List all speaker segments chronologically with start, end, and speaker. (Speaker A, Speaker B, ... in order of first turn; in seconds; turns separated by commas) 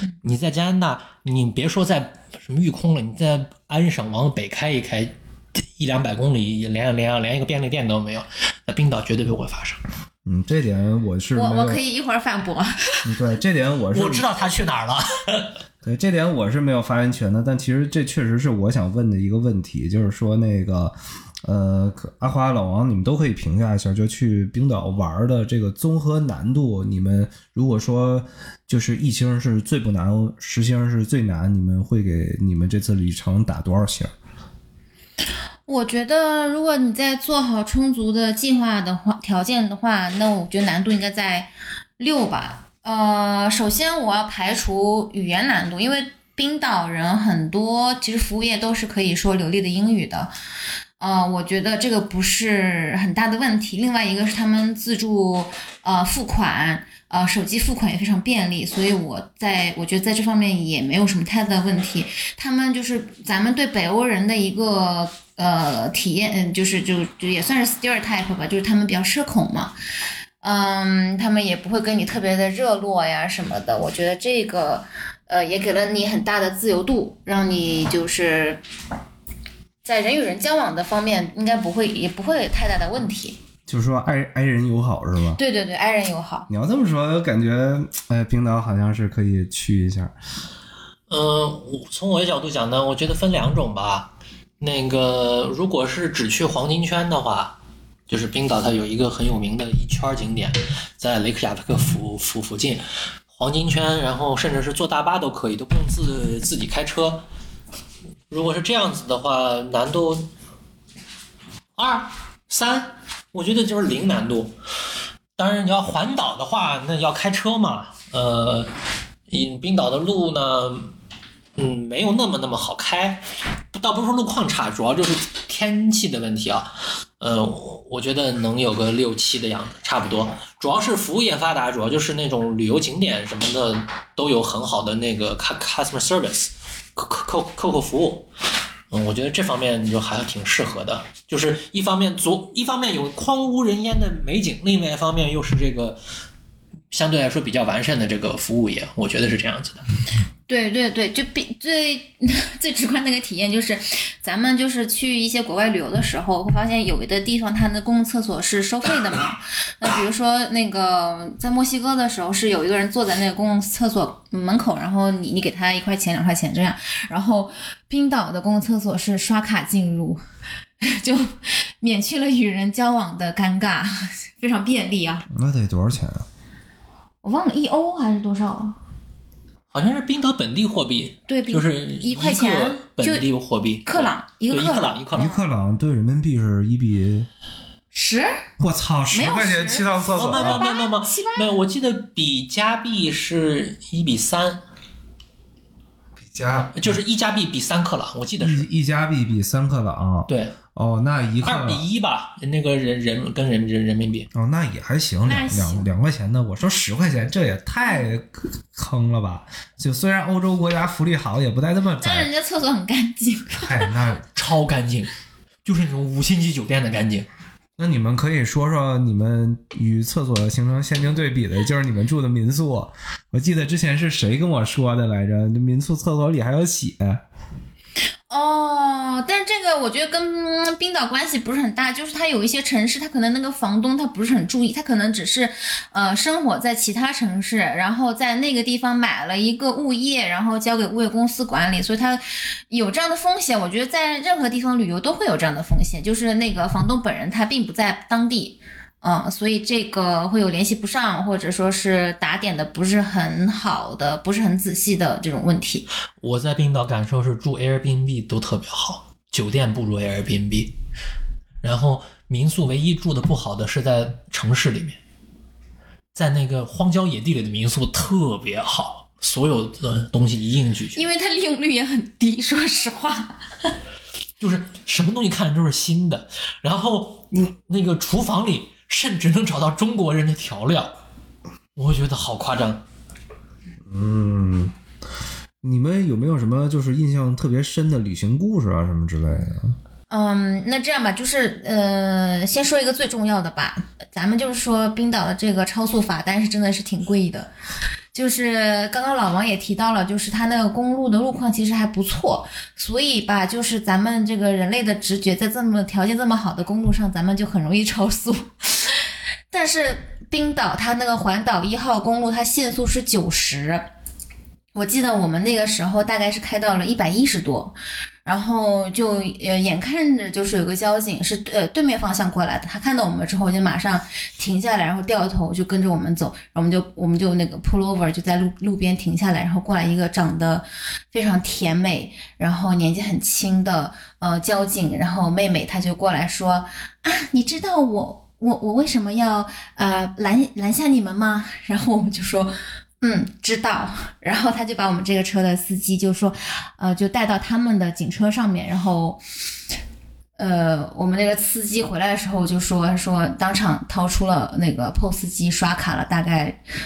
Speaker A: 0.2-9.8, Speaker B: 10.3-11.8, Speaker C: 11.3-13.0, Speaker B: 13.1-14.3, Speaker A: 13.9-15.6, Speaker B: 15.8-34.1, Speaker C: 35.7-50.3, Speaker C: 51.0-69.7, Speaker C: 70.4-78.6, Speaker C: 79.8-83.4, Speaker B: 83.7-85.4, Speaker C: 85.3-86.5, Speaker B: 86.5-90.1, Speaker A: 91.1-97.6, Speaker A: 98.1-107.2, Speaker A: 108.3-110.3, Speaker A: 111.8-114.5, Speaker A: 115.4-118.7, Speaker A: 119.3-120.9, Speaker A: 121.6-138.3, Speaker A: 138.9-146.0, Speaker A: 146.9-149.8, Speaker C: 150.5-170.2, Speaker C: 170.8-175.3, Speaker B: 175.3-176.3, Speaker C: 177.2-178.8, Speaker A: 179.7-185.3, Speaker C: 181.3-183.3, Speaker C: 183.9-185.4, Speaker B: 185.1-187.3, Speaker C: 187.9-188.4, Speaker B: 188.6-190.7, Speaker C: 189.1-191.5, Speaker A: 190.2-194.6, Speaker B: 196.2-197.0, Speaker A: 196.7-198.7, Speaker B: 198.4-201.8, Speaker A: 200.3-200.6, Speaker A: 201.4-204.3, Speaker B: 204.3-212.3, Speaker C: 205.3-205.9, Speaker C: 212.0-213.9, Speaker B: 213.7-214.3, Speaker A: 214.3-215.1, Speaker A: 215.7-217.3, Speaker B: 217.8-227.2, Speaker C: 228.3-255.9, Speaker A: 256.2-260.7, Speaker A: 261.6-265.0, Speaker A: 266.1-271.0, Speaker C: 270.9-273.7, Speaker A: 274.4-280.9, Speaker A: 281.8-282.8, Speaker B: 283.9-284.7, Speaker B: 285.6-289.8, Speaker C: 290.1-297.5, Speaker C: 298.1-313.9, Speaker C: 314.8-349.2, Speaker C: 350.4-356.6